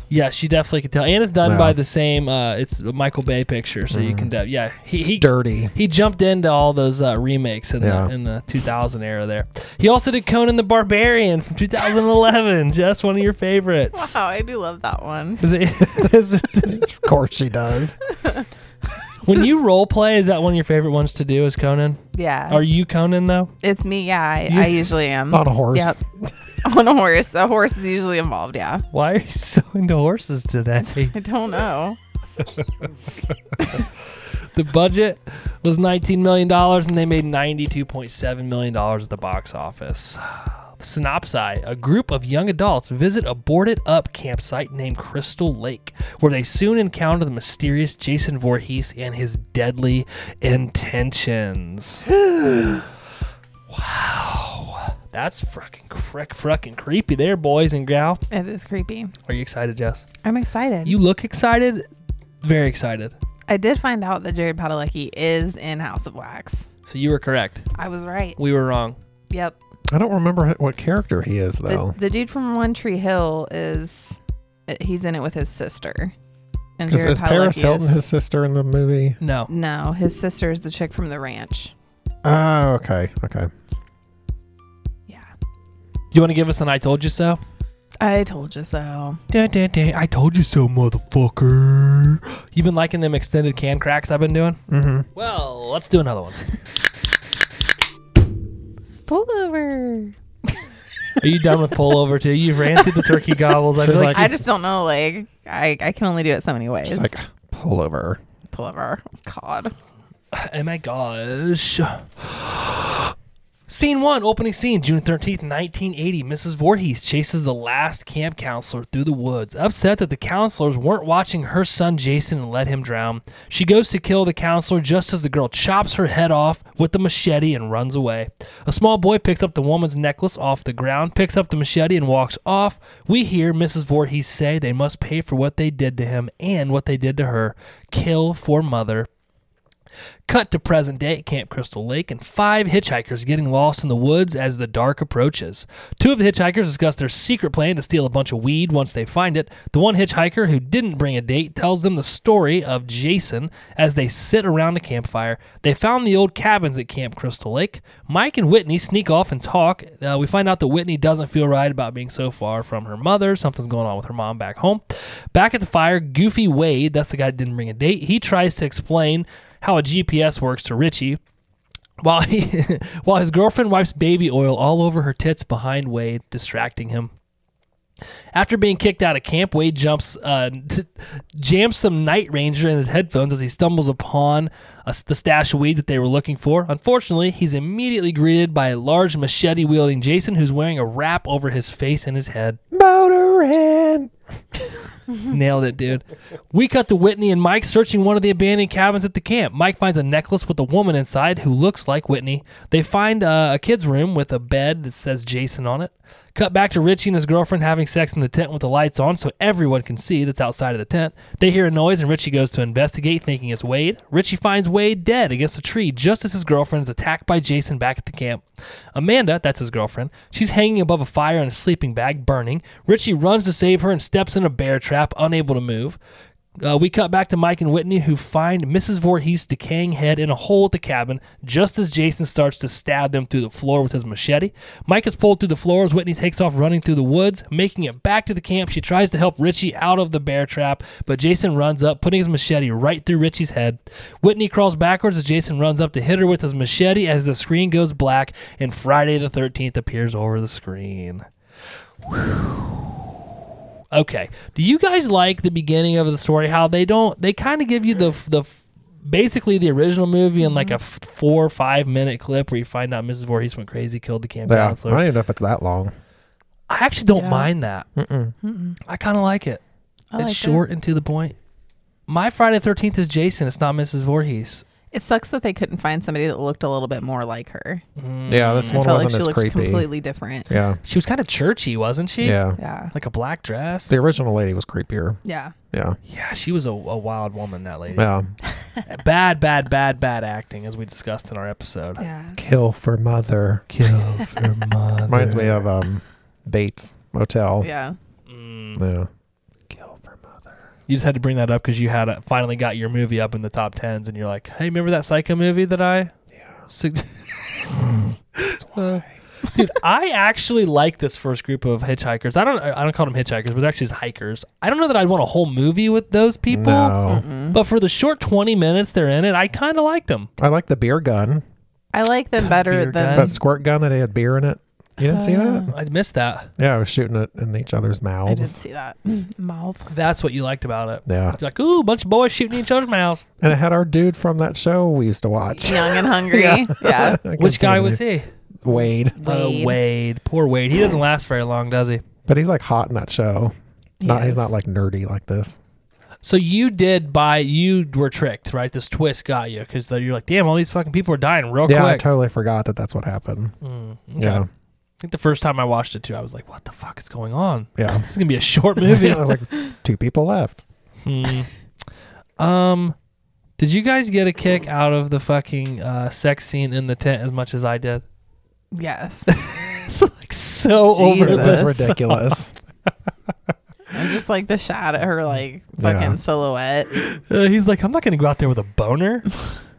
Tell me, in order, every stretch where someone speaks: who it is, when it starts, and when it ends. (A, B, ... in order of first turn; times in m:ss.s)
0:00.1-0:14.2 A
0:01.4-0:01.8 B
0:03.9-0:04.3 B
0:04.9-0:05.7 B
0:07.8-0:08.1 B
0:13.9-0:15.4 C
0:15.4-0:16.9 A
0:16.6-0:18.0 B
0:18.1-0:18.5 C
0:19.2-0:23.5 A
0:22.1-0:22.6 C
0:23.6-0:26.0 C
0:24.5-0:24.8 A
0:25.3-0:26.3 B
0:26.6-0:28.8 C
0:28.9-0:31.2 A
0:31.1-0:32.0 C
0:32.4-0:32.7 A
0:33.3-0:52.8 A
0:53.7-0:58.2 A
0:58.3-0:59.1 C
0:59.2-1:00.0 A
1:00.2-1:01.0 C
1:00.8-1:01.8 A
1:02.4-1:03.1 A
1:03.5-1:06.7 C
1:06.8-1:07.6 A
1:07.7-1:08.4 C
1:08.4-1:09.0 A
1:09.3-1:09.6 C
1:09.9-1:11.9 B
1:11.7-1:16.1 C
1:16.8-1:18.0 C
1:16.9-1:19.2 B
1:19.2-1:19.5 A
1:19.5-1:21.7 C
1:22.2-1:23.5 B
1:26.1-1:27.4 A
1:28.0-1:29.2 C
1:29.3-1:34.6 A
1:34.7-1:35.0 B
1:35.2-1:36.4 A
1:39.1-1:40.1 C
1:41.2-1:44.3 A
1:42.8-1:43.2 C
1:43.8-1:44.3 B
1:44.1-1:47.1 C
1:46.8-1:48.2 B
1:48.5-1:49.7 C
1:50.3-1:53.1 A
1:53.7-2:19.1 A
2:20.3-2:51.2 A
2:52.0-2:57.1 A
2:58.3-3:12.6 A
3:12.7-3:14.1 B
3:15.2-3:38.4 A
3:38.9-3:46.0 A
3:46.6-4:11.2 A
4:12.0-4:12.9 A
4:13.9-4:25.1 A
4:20.4-4:20.8 C
4:24.4-4:25.9 B
4:26.7-4:27.9 A
4:27.2-4:27.5 C
4:28.0-4:28.3 B
4:28.4-4:28.8 C
4:28.9-4:29.6 A
4:30.1-4:30.6 C
4:30.2-4:31.3 A
4:32.1-4:34.6 A
4:34.9-4:37.8 C
4:38.0-4:38.8 A
4:38.3-4:39.8 B
4:38.6-4:40.5 C
4:40.5-4:40.8 B
4:40.8-4:42.4 A
4:42.2-4:42.6 B
4:42.6-4:42.9 C
4:42.9-4:44.0 A
4:43.9-4:45.2 B
4:45.2-4:45.5 C
4:45.7-4:46.0 B
4:46.1-4:48.1 A
4:47.9-4:48.3 B
4:48.9-4:52.0 A
4:52.0-4:52.4 C
4:52.4-4:53.6 B
4:53.7-4:55.6 A
4:55.1-4:57.7 B
4:57.6-4:58.0 C
4:58.3-4:58.8 A
4:58.8-4:59.1 B
4:59.7-5:00.3 B
5:00.9-5:06.1 A
5:06.7-5:07.8 A
5:07.7-5:09.1 B
5:08.3-5:17.0 A
5:16.5-5:17.2 B
5:17.0-5:17.6 C
5:17.5-5:20.3 A
5:20.4-5:21.4 B
5:21.9-5:23.4 C
5:22.4-5:23.3 A
5:23.1-5:25.7 B
5:25.0-5:25.7 C
5:25.7-5:26.5 A
5:26.6-5:28.6 B
5:28.2-5:30.0 C
5:29.9-5:33.2 A
5:31.0-5:31.4 B
5:33.4-5:38.0 B
5:35.6-5:37.2 C
5:37.3-5:38.3 A
5:38.6-5:39.2 B
5:39.1-5:39.8 C
5:39.2-5:42.0 A
5:42.3-5:45.6 B
5:44.0-5:44.5 C
5:46.2-5:52.0 A
5:51.6-5:53.5 B
5:53.6-5:54.4 A
5:54.2-5:54.5 B
5:55.0-5:59.3 A
5:57.8-5:58.0 B
5:58.8-6:00.6 B
6:01.0-6:01.5 A
6:02.4-6:02.9 A
6:03.6-6:08.0 A
6:08.7-6:09.3 C
6:09.3-6:12.3 A
6:10.9-6:11.9 C
6:11.2-6:12.5 B
6:13.9-6:16.9 C
6:15.8-6:16.2 B
6:16.9-6:19.3 A